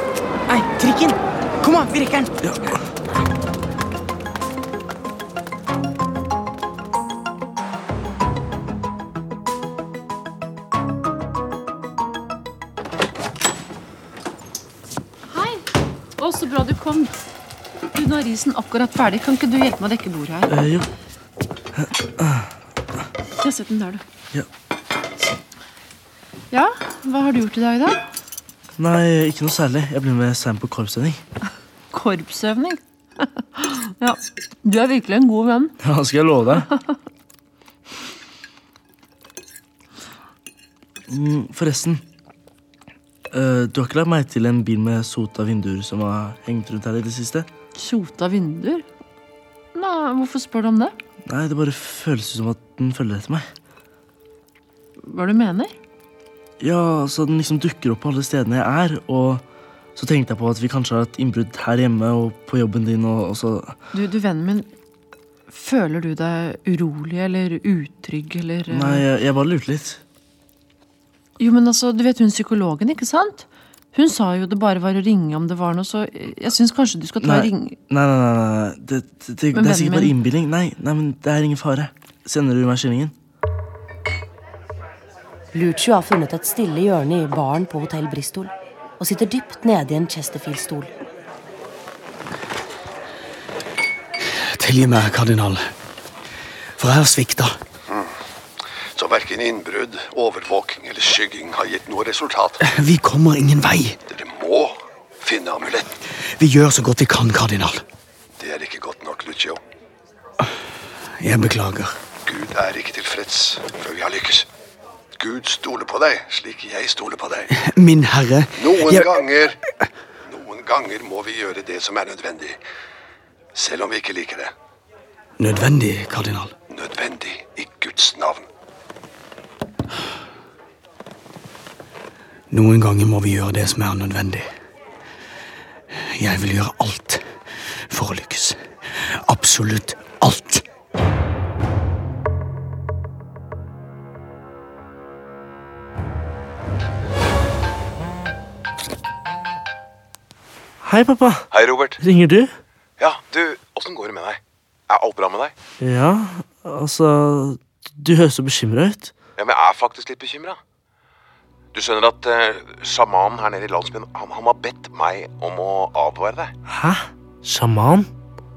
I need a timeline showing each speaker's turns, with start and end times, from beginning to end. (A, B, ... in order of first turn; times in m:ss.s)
0:00.5-0:02.4 A
0:15.3-0:15.6 B
0:16.2-0:17.2 B
0:17.9-0:20.6 B
0:20.5-0:20.9 C
0:21.7-0:22.5 C
0:23.4-0:24.0 B
0:26.5-0:28.0 B
0:28.8-0:31.2 C
0:31.9-0:35.7 B
0:35.8-0:36.7 C
0:41.1-0:42.0 C
0:43.3-0:47.5 C
0:47.8-0:48.8 B
0:49.7-0:51.0 B
0:51.3-0:53.5 C
0:55.0-0:55.7 B
0:56.6-0:59.4 C
1:00.0-1:03.8 C
1:03.9-1:04.7 B
1:05.5-1:09.0 B
1:08.7-1:10.0 C
1:11.4-1:17.8 B
1:17.2-1:23.1 C
1:19.5-1:20.1 B
1:25.5-1:30.9 D
1:34.2-1:35.7 E
1:36.8-1:37.6 E
1:37.9-1:38.1 F
1:38.9-1:42.6 F
1:42.6-1:44.0 E
1:44.1-1:46.0 F
1:46.2-1:47.8 E
1:48.4-1:49.6 F
1:51.2-1:52.0 E
1:52.2-1:54.5 F
1:55.2-1:57.5 F
1:57.5-1:59.2 E
1:58.6-1:59.6 F
2:00.2-2:02.6 F
2:03.5-2:04.5 F
2:05.4-2:06.5 E
2:06.7-2:08.5 F
2:12.5-2:14.5 E
2:15.9-2:17.3 E
2:17.9-2:18.6 E
2:19.2-2:20.6 E
2:30.8-2:31.5 C
2:31.5-2:32.0 G
2:32.0-2:32.5 C
2:33.0-2:35.5 G
2:35.8-2:39.1 C
2:39.4-2:40.6 G
2:41.7-2:46.5 G
2:46.7-2:48.1 C